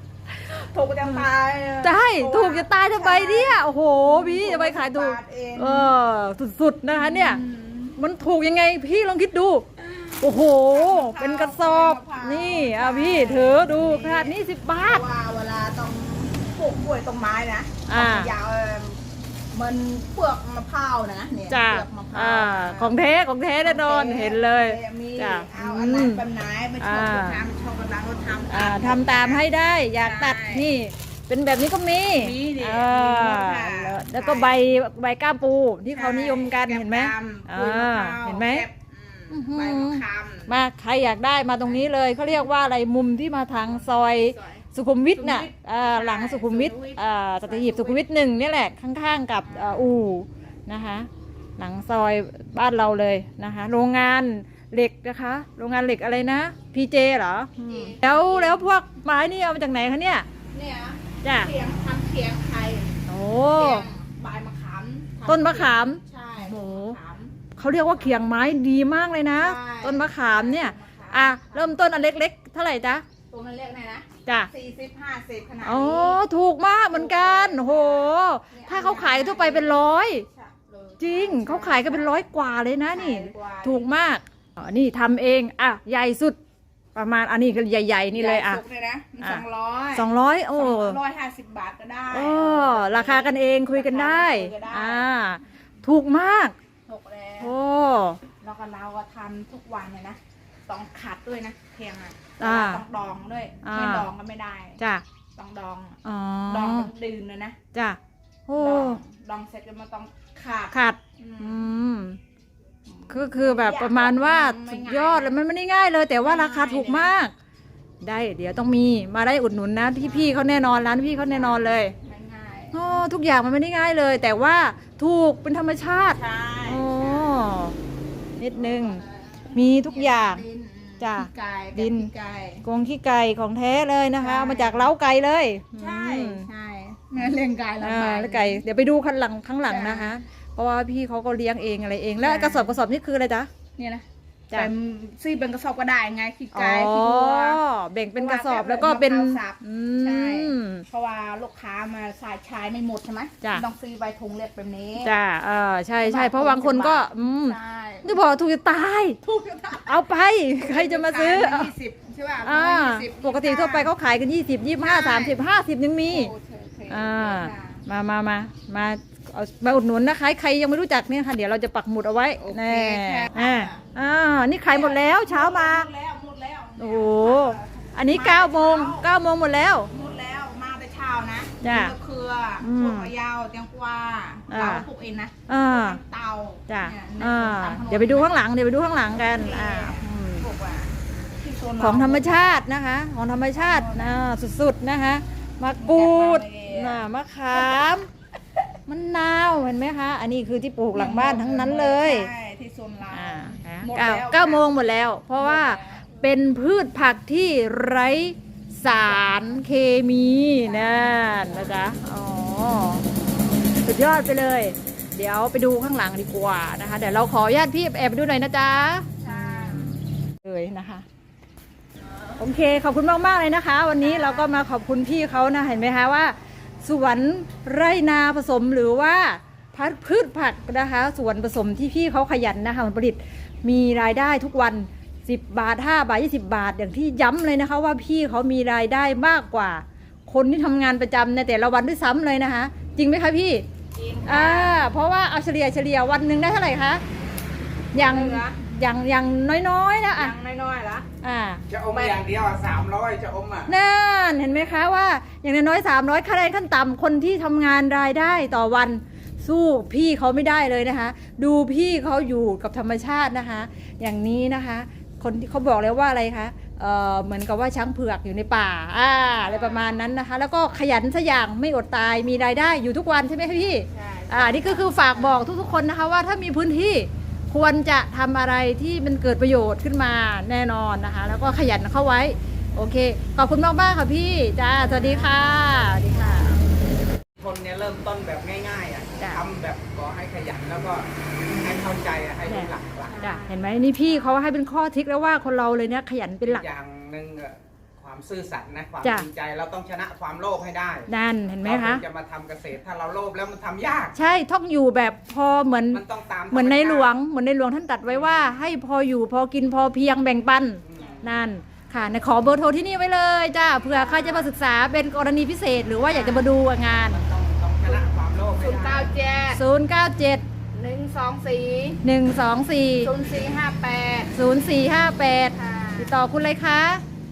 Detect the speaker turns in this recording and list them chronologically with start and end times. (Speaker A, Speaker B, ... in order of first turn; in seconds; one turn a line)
Speaker A: 0.5-5.9
Speaker B: 1.8-7.4
Speaker A: 6.9-8.0
Speaker B: 7.9-9.7
Speaker A: 9.9-23.0
Speaker B: 10.2-15.0
Speaker B: 17.9-18.3
Speaker B: 21.5-26.2
Speaker A: 23.6-30.6
Speaker B: 26.8-27.4
Speaker B: 28.5-38.7
Speaker A: 32.2-34.6
Speaker A: 35.9-40.5
Speaker B: 39.3-60.3
Speaker A: 43.6-48.0
Speaker A: 49.4-49.9
Speaker A: 57.6-58.6
Speaker A: 60.5-63.0
Speaker B: 61.2-61.5
Speaker B: 63.1-63.9
Speaker A: 63.5-68.2
Speaker B: 65.3-67.0
Speaker B: 67.5-73.0
Speaker A: 69.4-71.8
Speaker A: 73.3-76.2
Speaker B: 75.6-80.2
Speaker A: 76.9-82.2
Speaker B: 81.0-86.4
Speaker A: 82.9-83.9
Speaker B: 86.9-88.6
Speaker A: 88.1-95.1
Speaker B: 89.9-91.0
Speaker B: 92.1-96.5
Speaker A: 96.8-97.5
Speaker B: 97.4-98.2
Speaker A: 98.4-104.8
Speaker B: 102.4-102.8
Speaker B: 103.6-104.1
Speaker B: 104.8-105.0
Speaker A: 105.3-107.6
Speaker B: 106.0-106.9
Speaker B: 107.7-109.0
Speaker A: 108.6-111.7
Speaker B: 110.7-112.2
Speaker A: 112.9-115.4
Speaker B: 113.1-117.3
Speaker A: 116.2-117.1
Speaker B: 118.0-121.9
Speaker A: 120.0-120.5
Speaker A: 121.3-123.0
Speaker B: 122.7-127.8
Speaker A: 126.1-127.4
Speaker B: 128.4-130.4
Speaker A: 128.5-132.6
Speaker B: 131.0-132.1
Speaker B: 132.6-136.5
Speaker A: 134.2-134.9
Speaker A: 135.7-138.6
Speaker B: 137.8-143.5
Speaker A: 139.7-140.1
Speaker A: 142.2-142.8
Speaker A: 143.8-147.6
Speaker B: 146.5-150.8
Speaker A: 148.1-155.1
Speaker B: 155.0-159.2
Speaker A: 156.0-158.2
Speaker A: 159.2-163.9
Speaker B: 159.8-161.7
Speaker B: 162.4-166.3
Speaker A: 164.8-165.4
Speaker A: 166.0-167.8
Speaker B: 166.9-175.9
Speaker A: 172.4-173.8
Speaker A: 174.6-179.1
Speaker B: 176.8-179.9
Speaker A: 179.9-188.3
Speaker B: 181.6-181.9
Speaker B: 182.6-183.1
Speaker B: 184.5-184.9
Speaker B: 185.5-186.0
Speaker B: 186.7-190.5
Speaker A: 189.1-192.6
Speaker B: 191.8-198.1
Speaker A: 193.5-194.2
Speaker A: 195.8-197.0
Speaker A: 197.5-197.8
Speaker B: 198.9-202.3
Speaker A: 200.9-204.7
Speaker B: 203.1-213.1
Speaker A: 205.4-206.2
Speaker A: 209.0-209.6
Speaker A: 210.6-211.8
Speaker B: 213.8-221.1
Speaker A: 219.2-219.9
Speaker B: 222.4-243.7
Speaker A: 224.0-224.5
Speaker A: 243.9-244.8
Speaker B: 244.2-247.0
Speaker A: 247.9-248.6
Speaker B: 247.9-250.3
Speaker A: 250.1-251.1
Speaker B: 251.2-251.6
Speaker C: 251.7-253.7
Speaker A: 251.9-252.2
Speaker B: 253.7-286.6
Speaker A: 269.3-270.0
Speaker A: 273.9-275.5
Speaker A: 284.8-286.6
Speaker C: 287.4-293.2
Speaker B: 289.2-289.4
Speaker B: 292.5-296.6
Speaker A: 293.1-294.4
Speaker C: 296.4-301.1
Speaker B: 301.1-302.0
Speaker C: 301.6-304.1
Speaker B: 304.1-317.2
Speaker C: 305.9-307.1
Speaker C: 310.9-311.2
Speaker A: 313.8-314.5
Speaker A: 316.1-316.5
Speaker C: 317.1-319.1
Speaker A: 318.6-319.6
Speaker B: 319.5-320.4
Speaker A: 320.7-322.0
Speaker B: 322.0-323.1
Speaker A: 323.0-324.3
Speaker B: 324.3-327.0
Speaker A: 325.5-326.2